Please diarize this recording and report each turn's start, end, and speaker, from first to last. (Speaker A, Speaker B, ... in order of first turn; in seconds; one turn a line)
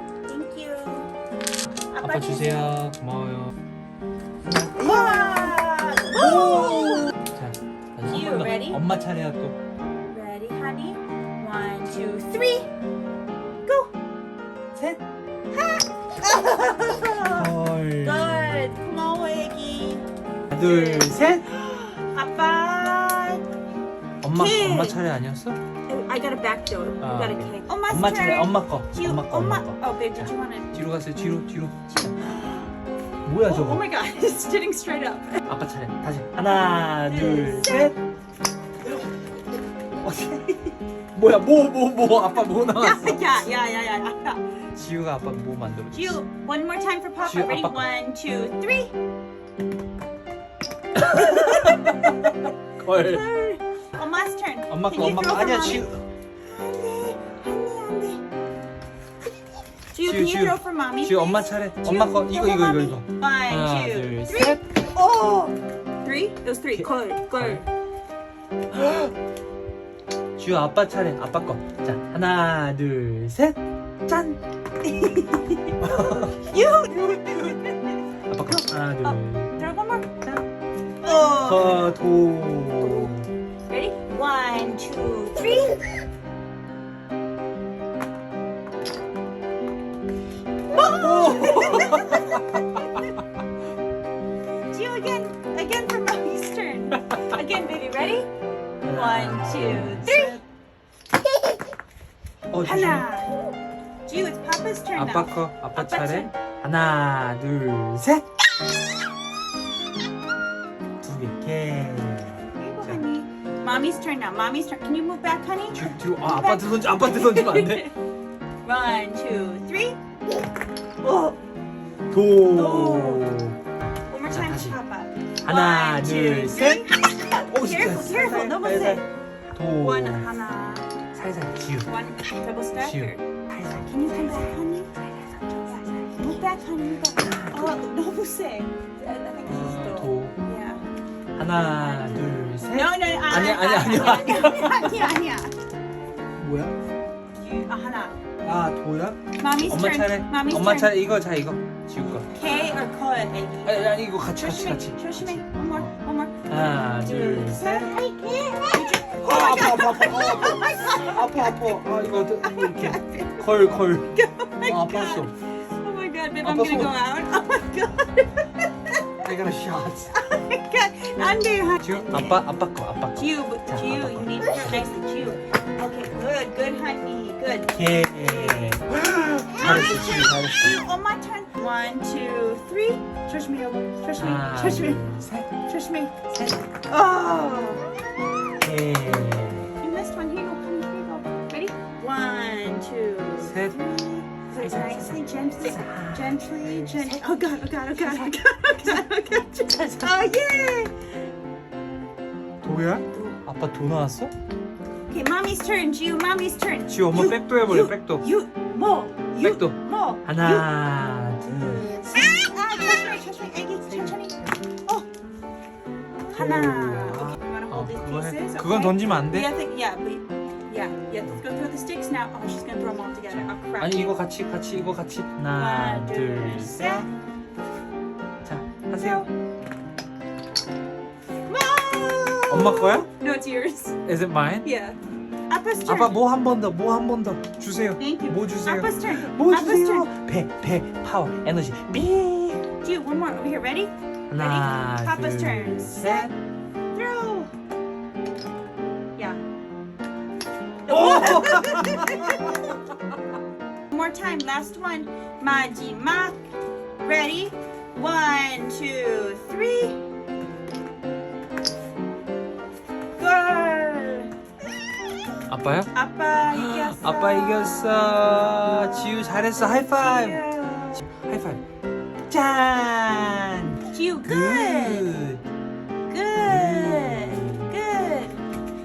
Speaker A: 0.3-1.1
Speaker A: 1.9-2.7
Speaker B: 2.0-3.5
Speaker B: 4.5-9.6
Speaker A: 4.8-7.1
Speaker A: 8.0-8.8
Speaker A: 10.1-12.7
Speaker A: 13.7-13.9
Speaker B: 14.8-15.0
Speaker A: 15.5-23.4
Speaker B: 17.2-18.8
Speaker B: 20.5-21.5
Speaker B: 24.2-25.6
Speaker A: 24.3-25.0
Speaker A: 25.9-30.7
Speaker B: 27.0-32.2
Speaker B: 33.2-33.8
Speaker A: 33.4-35.4
Speaker B: 35.5-38.0
Speaker A: 37.1-37.9
Speaker B: 40.0-43.4
Speaker A: 42.7-44.6
Speaker B: 44.8-46.2
Speaker A: 45.9-49.0
Speaker B: 47.2-47.9
Speaker B: 51.0-53.2
Speaker A: 51.0-55.9
Speaker B: 54.7-56.0
Speaker A: 56.4-58.2
Speaker A: 59.9-67.7
Speaker B: 60.0-64.7
Speaker B: 66.8-67.6
Speaker B: 68.7-69.1
Speaker B: 70.4-74.4
Speaker A: 74.8-78.0
Speaker B: 75.8-76.4
Speaker B: 78.3-79.7
Speaker A: 79.0-80.2
Speaker A: 81.0-82.0
Speaker B: 81.0-83.3
Speaker A: 82.8-83.1
Speaker A: 83.7-85.9
Speaker A: 90.7-93.1
Speaker B: 90.8-92.6
Speaker A: 94.7-98.3
Speaker B: 98.8-100.4
Speaker A: 98.9-100.4
Speaker B: 102.5-103.1
Speaker A: 102.6-103.3
Speaker A: 104.1-106.3
Speaker B: 105.0-108.2
Speaker B: 111.0-113.0
Speaker A: 112.5-117.9
Speaker B: 115.7-117.9
Speaker A: 118.6-120.0
Speaker A: 121.0-121.4
Speaker B: 122.1-123.6
Speaker A: 122.5-123.3
Speaker A: 124.1-129.1
Speaker B: 124.3-124.8
Speaker B: 125.4-129.0
Speaker B: 129.6-130.3
Speaker A: 129.8-130.9
Speaker B: 131.1-131.9
Speaker A: 131.8-133.2
Speaker B: 132.8-134.5
Speaker A: 133.8-140.9
Speaker B: 137.2-137.8
Speaker B: 139.4-140.3
Speaker B: 141.4-145.1
Speaker A: 141.7-142.2
Speaker A: 142.7-145.5
Speaker B: 146.4-146.8
Speaker A: 147.4-148.2
Speaker B: 148.4-152.3
Speaker A: 149.4-151.0
Speaker A: 152.3-161.8
Speaker B: 153.7-155.9
Speaker B: 156.5-158.0
Speaker B: 158.9-164.1
Speaker A: 162.4-169.1
Speaker B: 164.7-165.3
Speaker B: 166.4-167.0
Speaker B: 169.2-170.2
Speaker A: 170.1-172.4
Speaker B: 171.8-174.8
Speaker A: 173.2-178.8
Speaker B: 177.7-180.8
Speaker A: 179.4-185.0
Speaker B: 184.2-185.5
Speaker A: 185.6-187.8
Speaker B: 186.3-186.7
Speaker B: 188.6-189.7
Speaker A: 189.8-201.1
Speaker B: 193.4-193.8
Speaker B: 194.6-199.0
Speaker B: 199.7-200.1
Speaker B: 202.6-204.3
Speaker A: 205.1-210.7
Speaker B: 206.9-208.2
Speaker B: 209.4-212.2
Speaker A: 211.5-215.1
Speaker B: 213.9-214.2
Speaker A: 216.2-224.1
Speaker B: 216.3-219.5
Speaker B: 223.3-227.1
Speaker A: 225.5-227.1
Speaker B: 228.4-229.3
Speaker A: 228.9-229.3
Speaker A: 231.5-234.0
Speaker B: 232.5-233.1
Speaker B: 234.1-234.7
Speaker A: 234.6-235.0
Speaker A: 235.5-236.2
Speaker B: 235.9-242.7
Speaker A: 238.0-240.1
Speaker A: 242.8-246.3
Speaker B: 244.3-246.3
Speaker A: 246.9-247.5
Speaker A: 250.9-252.8
Speaker B: 250.9-252.5
Speaker A: 253.9-256.4
Speaker A: 257.0-260.0
Speaker A: 263.2-264.3
Speaker B: 265.5-265.9
Speaker A: 265.9-271.0
Speaker B: 266.5-270.4
Speaker B: 271.0-271.6
Speaker B: 272.3-275.4
Speaker A: 273.9-275.1
Speaker A: 276.1-278.4
Speaker B: 276.4-277.7